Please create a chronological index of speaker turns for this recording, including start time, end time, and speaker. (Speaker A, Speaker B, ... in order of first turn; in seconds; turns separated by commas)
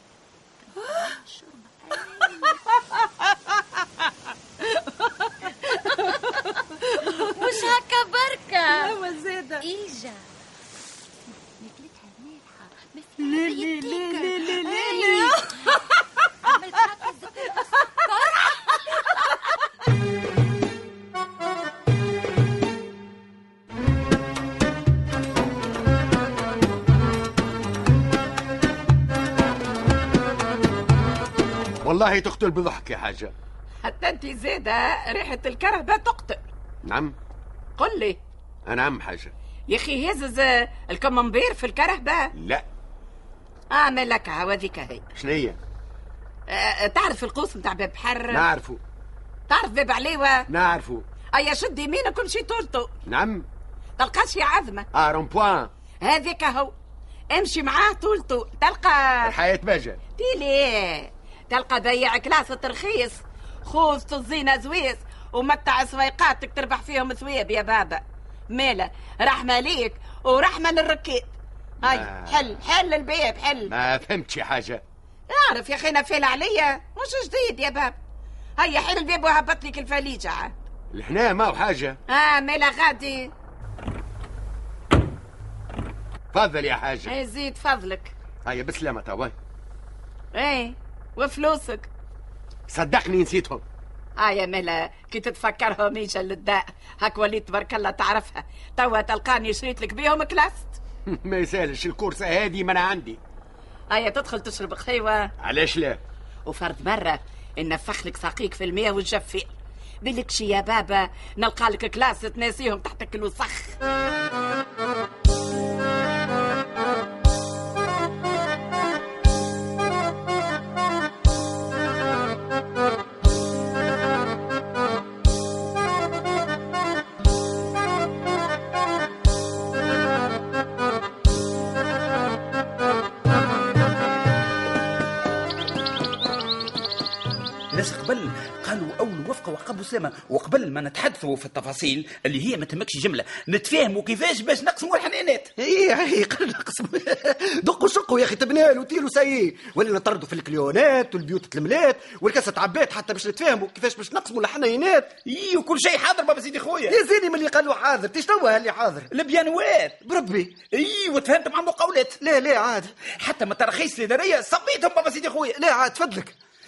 Speaker A: 0.8-2.6, Speaker B: 2.0-4.1, Speaker B: 4.6-7.7, Speaker A: 6.1-6.4, Speaker A: 7.2-9.0, Speaker B: 8.7-9.7, Speaker A: 9.6-10.2, Speaker A: 11.6-15.7, Speaker B: 13.2-15.7, Speaker A: 16.5-19.0, Speaker C: 31.8-33.4, Speaker D: 33.8-36.4, Speaker C: 36.9-37.2, Speaker D: 37.8-38.2, Speaker C: 38.7-39.3, Speaker D: 39.7-42.3, Speaker C: 42.4-42.7, Speaker D: 43.7-45.0, Speaker C: 45.2-45.6, Speaker D: 46.5-48.5, Speaker C: 48.3-48.8, Speaker D: 49.5-50.4, Speaker C: 50.5-51.1, Speaker D: 51.3-52.9, Speaker C: 53.1-53.5, Speaker D: 54.0-54.9, Speaker C: 54.9-55.7, Speaker D: 56.0-56.7, Speaker D: 57.3-59.3, Speaker C: 59.2-60.0, Speaker D: 60.2-73.7, Speaker C: 71.8-72.5, Speaker C: 73.7-74.8, Speaker D: 75.3-78.0, Speaker D: 78.6-80.5, Speaker C: 80.9-82.0, Speaker D: 82.1-83.3, Speaker C: 86.3-87.1, Speaker D: 87.0-88.1, Speaker C: 88.5-89.3, Speaker D: 90.3-91.9, Speaker C: 92.7-93.6, Speaker D: 94.2-100.8, Speaker C: 101.1-103.2, Speaker D: 103.9-105.3, Speaker C: 105.4-106.0, Speaker D: 106.5-113.8, Speaker E: 137.7-145.5, Speaker F: 145.6-155.1, Speaker E: 155.3-156.9, Speaker F: 156.9-159.1, Speaker E: 159.1-160.0, Speaker F: 160.0-160.6, Speaker E: 160.7-162.2, Speaker F: 162.2-162.9, Speaker E: 163.2-165.5, Speaker F: 165.5-166.4